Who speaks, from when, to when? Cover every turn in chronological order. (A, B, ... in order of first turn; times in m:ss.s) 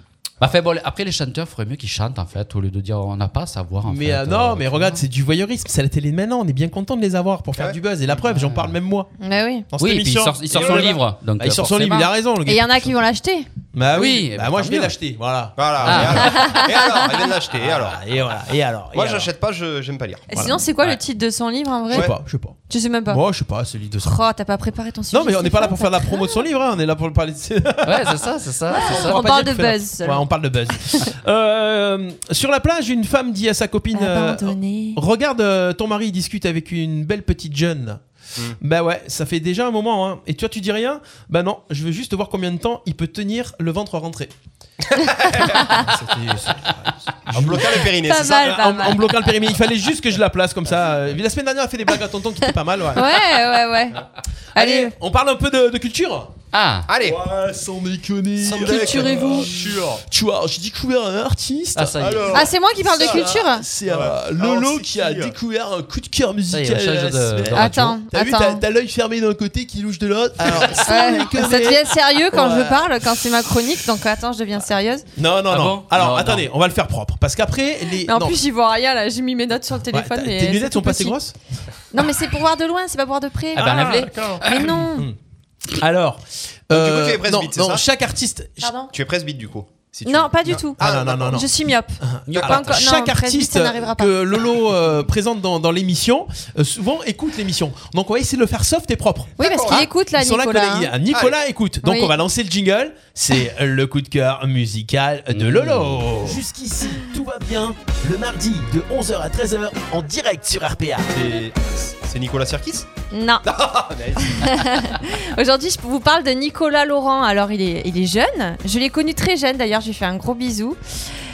0:00.4-0:05.0 A
0:03.8-0:09.1 B
0:08.3-0:08.7 A
0:09.2-0:09.6 C
0:09.7-0:12.9 B
0:09.8-0:12.1 A
0:10.5-0:10.9 D
0:12.4-0:13.5 C
0:13.7-0:16.3 B
0:13.9-0:15.0 A
0:15.6-0:18.0 D
0:15.8-0:16.5 A
0:16.2-0:16.9 C
0:17.5-0:19.3 B
0:18.9-0:20.3 D
0:20.3-0:22.1 C
0:20.3-0:21.0 B
0:21.9-0:22.6 B
0:22.7-0:23.2 C
0:23.1-0:24.2 B
0:24.0-0:26.4 C
0:25.1-0:38.0 B
0:27.8-0:29.2 A
0:28.7-0:30.3 C
0:33.9-0:35.0 C
0:38.6-0:44.3 B
0:44.9-0:45.7 D
0:45.6-0:46.7 B
0:47.3-0:48.6 D
0:47.3-0:53.2 B
0:48.0-0:49.3 C
0:52.9-0:54.0 C
0:54.5-0:54.9 C
0:54.5-0:56.3 B
0:56.5-0:56.9 A
0:56.9-0:57.4 D
0:57.0-1:02.3 B
0:58.4-1:00.0 D
0:58.7-0:59.5 C
1:01.7-1:02.5 A
1:02.0-1:03.2 D
1:02.3-1:03.6 C
1:02.8-1:13.1 B
1:03.8-1:05.3 D
1:06.5-1:07.9 A
1:07.5-1:08.6 C
1:10.8-1:15.0 C
1:15.2-1:18.4 B
1:15.5-1:16.5 A
1:18.0-1:21.2 C
1:19.9-1:21.3 B
1:21.9-1:25.1 C
1:23.5-1:24.9 A
1:23.7-1:25.2 B
1:25.8-1:28.7 B
1:26.7-1:27.8 D
1:28.6-1:28.9 C
1:28.9-1:31.4 D
1:30.0-1:31.5 B
1:30.0-1:34.2 C
1:32.0-1:46.4 B
1:32.3-1:32.8 A
1:39.4-1:39.9 D
1:39.4-1:40.9 C
1:41.1-1:41.4 D
1:41.8-1:42.1 C
1:45.3-1:46.1 A
1:46.2-1:51.2 E
1:51.1-1:52.8 D
1:53.1-1:53.5 C
1:53.4-1:54.6 D
1:54.3-2:00.8 C